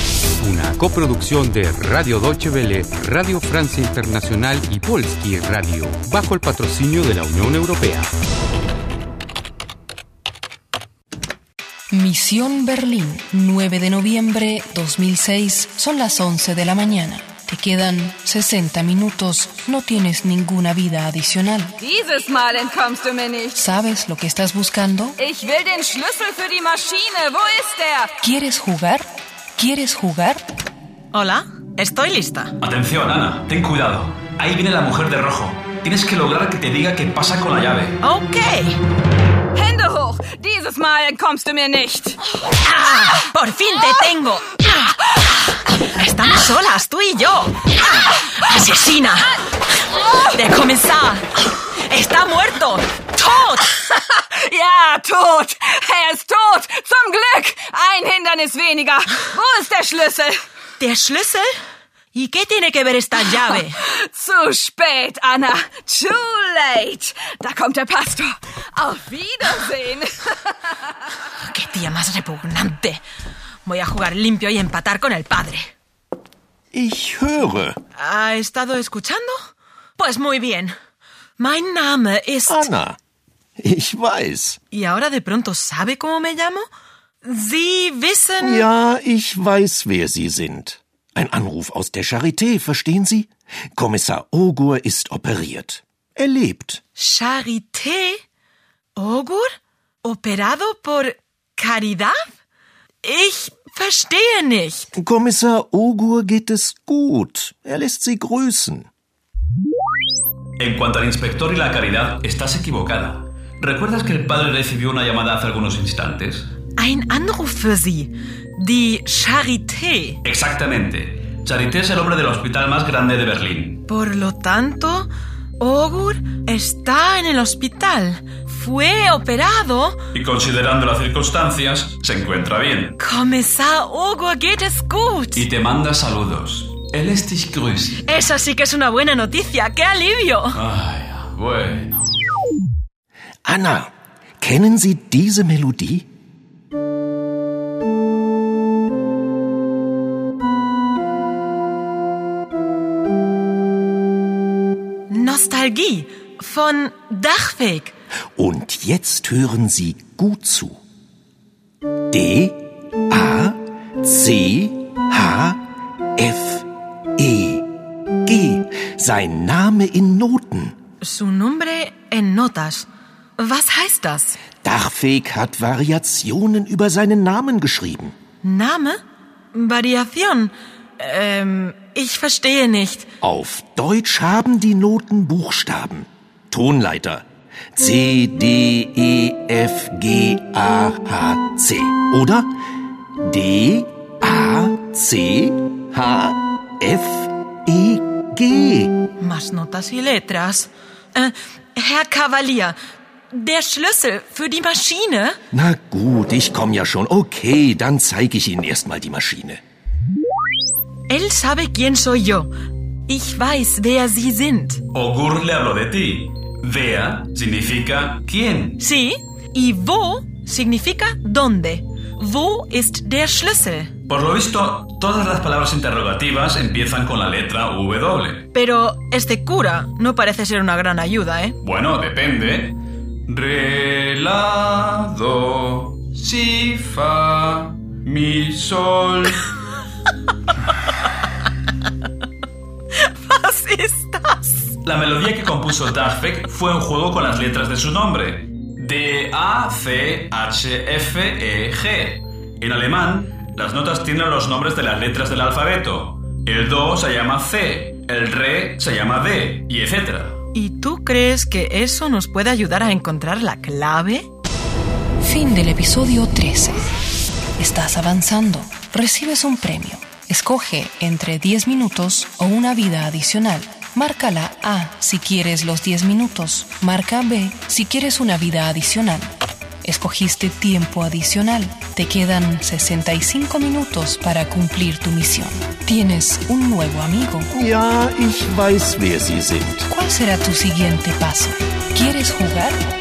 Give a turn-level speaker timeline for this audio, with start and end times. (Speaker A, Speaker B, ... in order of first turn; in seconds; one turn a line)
Speaker A: 0.4-8.1
Speaker B: 11.9-21.7
Speaker C: 21.8-23.6
Speaker B: 23.6-25.2
Speaker C: 25.2-28.2
Speaker B: 28.2-29.1
Speaker B: 29.6-30.4
Speaker D: 31.1-32.5
Speaker E: 32.6-38.0
Speaker D: 38.0-38.4
Speaker C: 39.5-42.2
Speaker D: 42.7-44.4
Speaker D: 46.0-47.5
Speaker D: 48.5-49.2
Speaker C: 50.0-50.3
Speaker D: 50.4-51.1
Speaker D: 51.9-53.6
Speaker C: 53.7-60.4
Speaker D: 60.8-61.4
Speaker D: 62.2-63.6
Speaker C: 63.4-71.1
Speaker D: 71.5-73.0
Speaker D: 73.7-75.6
Speaker F: 76.7-77.8
Speaker D: 78.1-79.3
Speaker D: 80.0-80.7
Speaker D: 81.4-82.6
Speaker F: 82.5-83.0
Speaker F: 83.6-84.6
Speaker D: 84.8-86.6
Speaker D: 87.4-88.4
Speaker F: 88.4-96.8
Speaker D: 97.0-98.1
Speaker D: 99.0-99.4
Speaker D: 100.1-101.1
Speaker D: 101.6-102.1
Speaker D: 103.1-104.9
Speaker F: 105.0-108.9
Speaker E: 110.6-116.5
Speaker D: 116.8-118.1
Speaker D: 118.7-120.1
Speaker E: 120.2-123.8
Speaker D: 124.0-125.0
Speaker D: 125.6-129.9
Speaker E: 130.1-133.0
Speaker D: 133.1-135.3
Speaker E: 135.3-138.0
Speaker D: 138.1-140.3
Speaker E: 140.5-142.2
Speaker F: 143.4-146.1
Speaker D: 155.1-157.9
Speaker F: 158.4-160.8
Speaker F: 162.1-165.6
Speaker F: 166.2-167.6
Speaker F: 168.2-170.7
Speaker D: 171.1-172.8
Speaker D: 173.4-174.3
Speaker F: 174.6-178.1
Speaker D: 178.4-178.9
Speaker D: 179.6-180.5
Speaker D: 181.0-183.0
Speaker F: 183.2-192.5
Speaker F: 193.2-199.0
Speaker D: 199.3-200.6
Speaker D: 201.8-202.7
Speaker D: 203.4-205.3
Speaker F: 205.5-209.6
Speaker D: 211.1-212.4
Speaker D: 213.1-214.8
Speaker E: 214.9-218.8
Speaker D: 218.8-223.8
Speaker E: 224.1-228.4
Speaker D: 228.6-231.5
Speaker E: 231.6-232.8
Speaker E: 233.3-239.5
Speaker D: 243.3-244.4
Speaker E: 244.8-260.4
Speaker D: 260.6-264.2
Speaker B: 265.2-266.8
Speaker B: 267.6-279.3
Speaker B: 279.8-287.5
Speaker F: 287.5-289.8
Speaker B: 289.9-292.8